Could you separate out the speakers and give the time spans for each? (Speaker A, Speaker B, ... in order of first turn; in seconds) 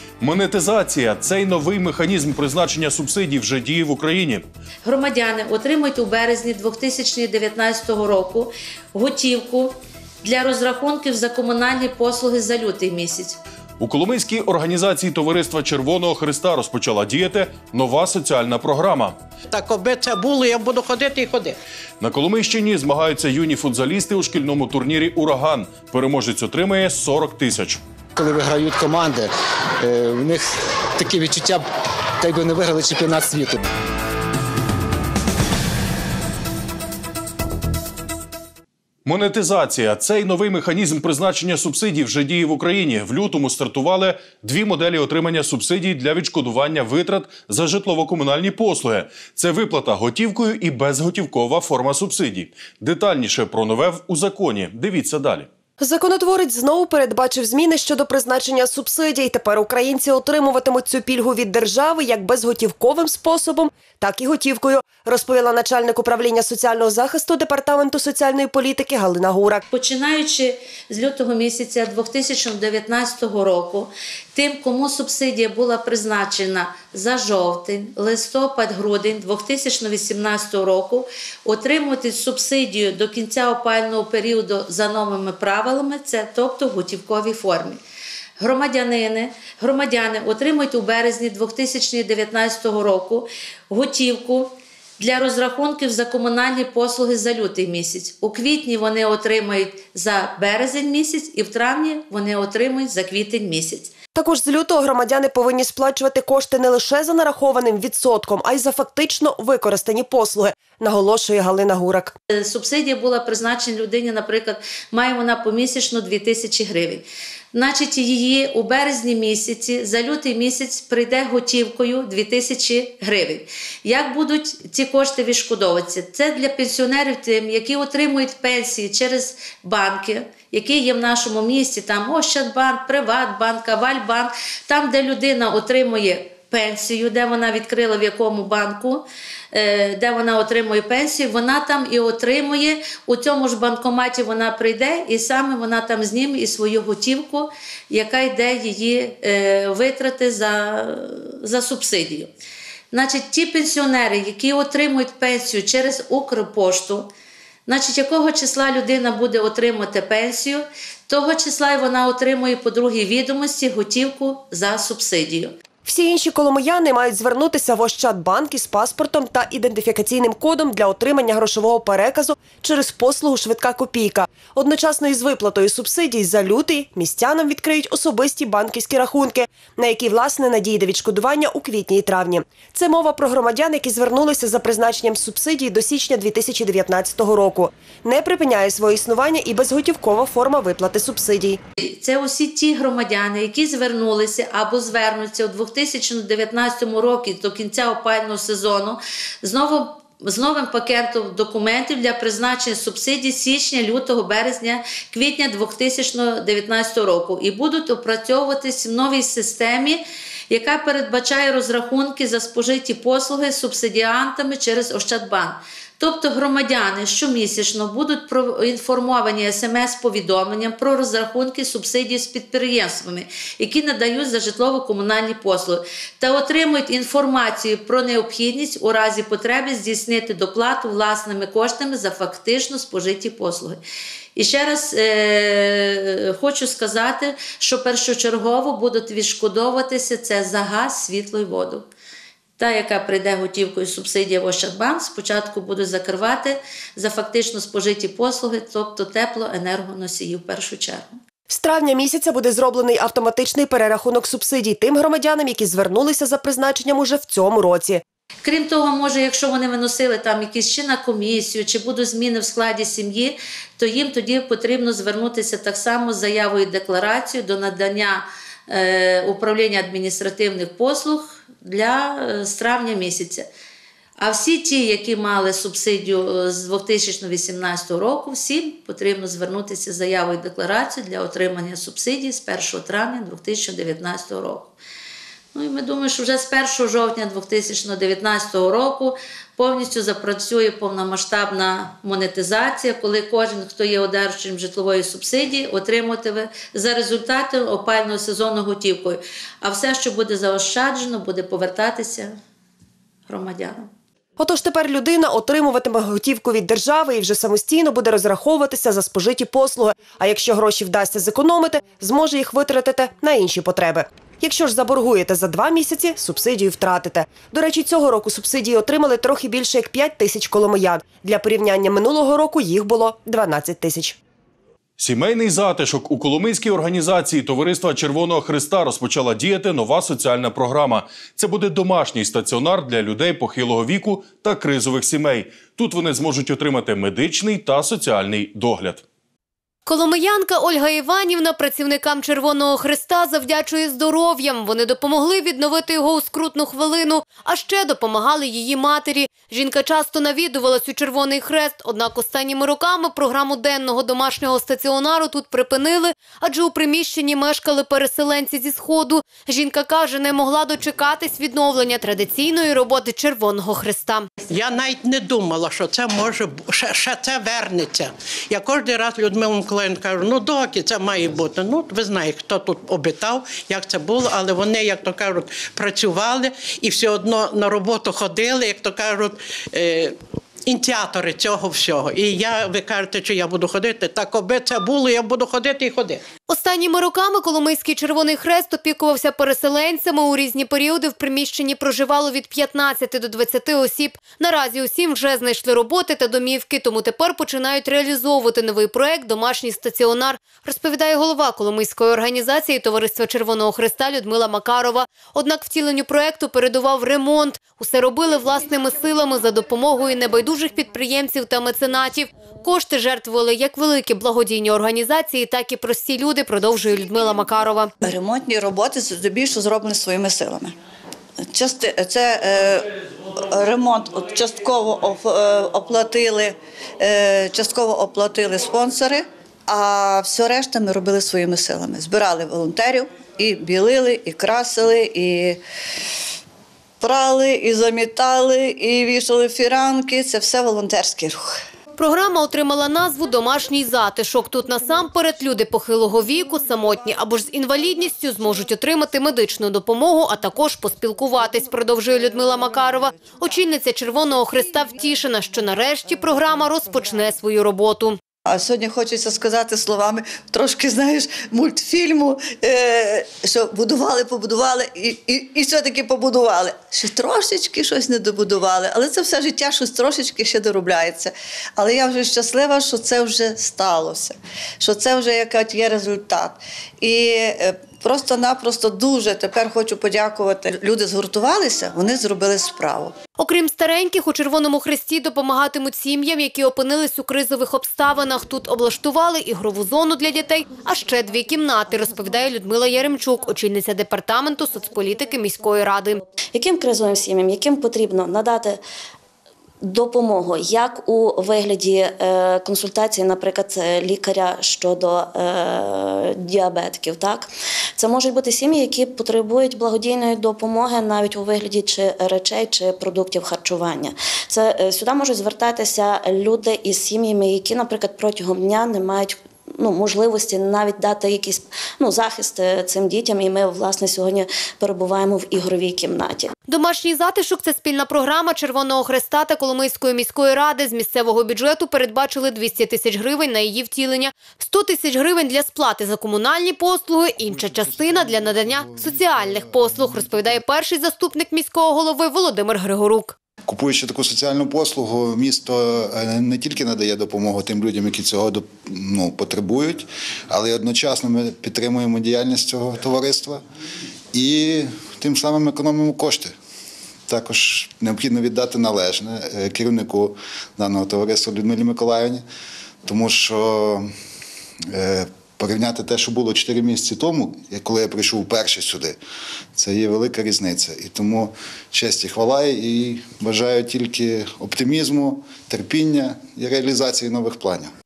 Speaker A: 0.2-4.5, 13.8-19.2, 22.0-27.8, 39.0-55.5, 325.0-339.0
Speaker B: 4.8-13.4, 69.7-87.8, 88.4-103.9, 112.3-152.3, 152.9-157.1, 157.7-165.5, 191.8-233.8, 234.3-241.8, 242.6-251.2, 258.4-273.4, 274.2-284.7, 285.5-302.3, 303.3-303.9
Speaker C: 19.5-21.6, 364.5-386.2
Speaker D: 28.2-29.3, 29.8-30.4, 31.0-31.6, 32.2-33.5
Speaker E: 55.8-69.6, 104.2-112.1, 165.8-191.6, 251.5-258.0, 304.4-324.2
Speaker F: 339.9-364.3, 386.5-417.9, 441.9-458.2, 483.4-496.2, 526.7-543.4
Speaker G: 418.0-420.7, 421.5-422.9, 423.5-435.6, 437.0-441.5, 458.5-483.1
Speaker H: 496.5-498.8, 499.8-526.5
Speaker I: 537.5-540.5, 543.7-553.6, 554.3-556.5, 557.3-562.4, 563.0-564.1, 564.9-569.1, 569.7-577.9